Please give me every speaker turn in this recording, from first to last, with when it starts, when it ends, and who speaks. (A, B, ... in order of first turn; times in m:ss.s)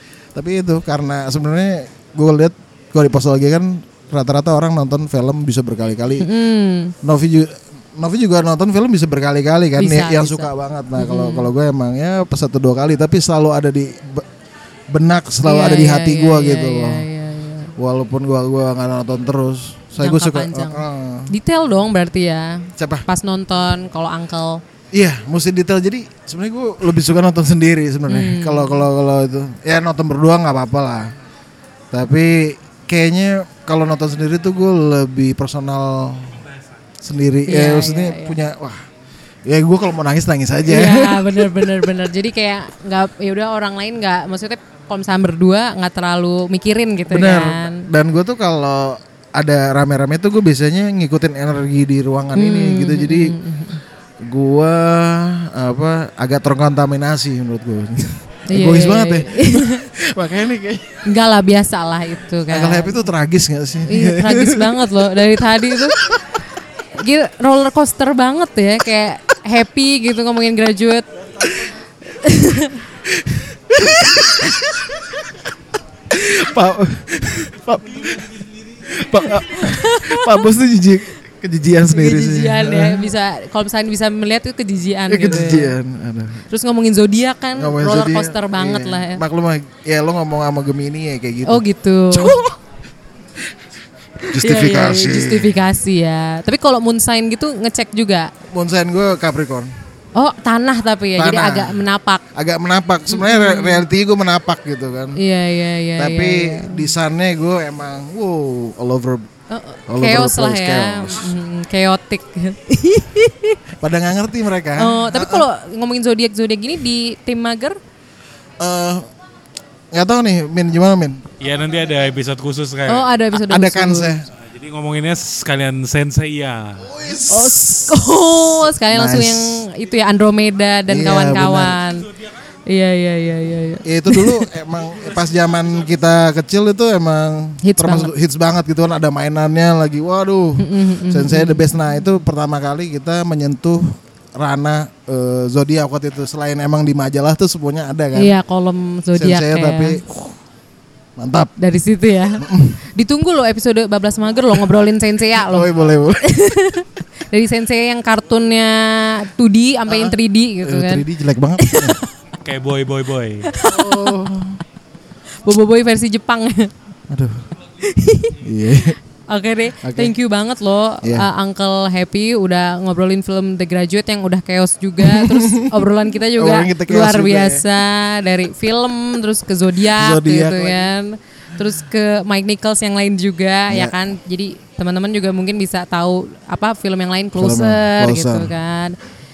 0:00.3-0:06.3 A
0:06.2-0:06.9 B
0:07.0-0:14.2 A
0:09.8-0:11.5 B
0:14.9-0:17.1 A
0:15.4-0:17.7 B
0:17.8-0:21.3 A
0:20.0-0:24.6 B
0:22.8-0:23.0 A
0:24.9-0:31.1 A
0:28.1-0:28.8 B
0:31.9-0:36.4 A
0:37.0-0:38.8 A
0:37.5-0:38.4 B
0:39.4-0:41.9 A
0:40.6-0:47.8 B
0:47.1-0:53.4 A
0:52.3-0:53.8 B
0:54.2-1:01.0 A
0:58.5-0:59.9 B
1:01.0-1:03.0 B
1:02.5-1:04.9 A
1:03.9-1:06.0 B
1:05.9-1:06.2 A
1:07.0-1:11.0 B
1:12.2-1:12.8 B
1:13.0-1:15.4 A
1:16.1-1:23.1 A
1:19.5-1:20.3 B
1:21.9-1:25.7 B
1:25.1-1:26.4 A
1:26.5-1:29.2 B
1:27.6-1:32.6 A
1:31.4-1:32.4 B
1:34.2-1:38.3 B
1:34.3-1:35.6 A
1:38.5-1:39.7 A
1:40.1-1:42.2 B
1:41.2-1:45.2 A
1:43.1-1:43.8 B
1:45.2-1:46.8 B
1:46.0-1:49.3 A
1:49.5-1:53.6 B
1:49.9-1:51.4 A
1:53.8-1:55.4 A
1:54.8-1:57.8 B
1:58.6-1:59.1 A
1:59.9-2:01.2 A
2:01.4-2:03.1 C
2:02.9-2:04.1 B
2:03.3-2:04.2 A
2:04.4-2:06.8 C
2:06.8-2:09.6 A
2:07.3-2:12.1 B
2:10.9-2:11.8 A
2:12.7-2:14.5 B
2:13.8-2:28.3 A
2:17.6-2:18.1 B
2:20.6-2:21.7 B
2:28.1-2:30.0 B
2:29.1-2:30.3 A
2:31.2-2:31.5 A
2:31.6-2:35.7 B
2:32.4-2:32.8 A
2:35.4-2:36.6 A
2:36.2-2:41.0 B
2:39.9-2:42.0 A
2:41.6-2:42.0 B
2:42.4-2:43.5 C
2:43.5-2:44.2 B
2:43.6-2:44.6 A
2:45.4-2:46.7 B
2:47.1-2:47.4 A
2:47.8-2:48.4 B
2:48.4-2:49.0 A
2:49.3-3:09.0 B
2:49.8-2:50.1 A
2:51.0-2:51.3 A
2:55.0-2:57.6 A
2:59.9-3:00.9 A
3:03.7-3:04.0 A
3:07.4-3:08.5 A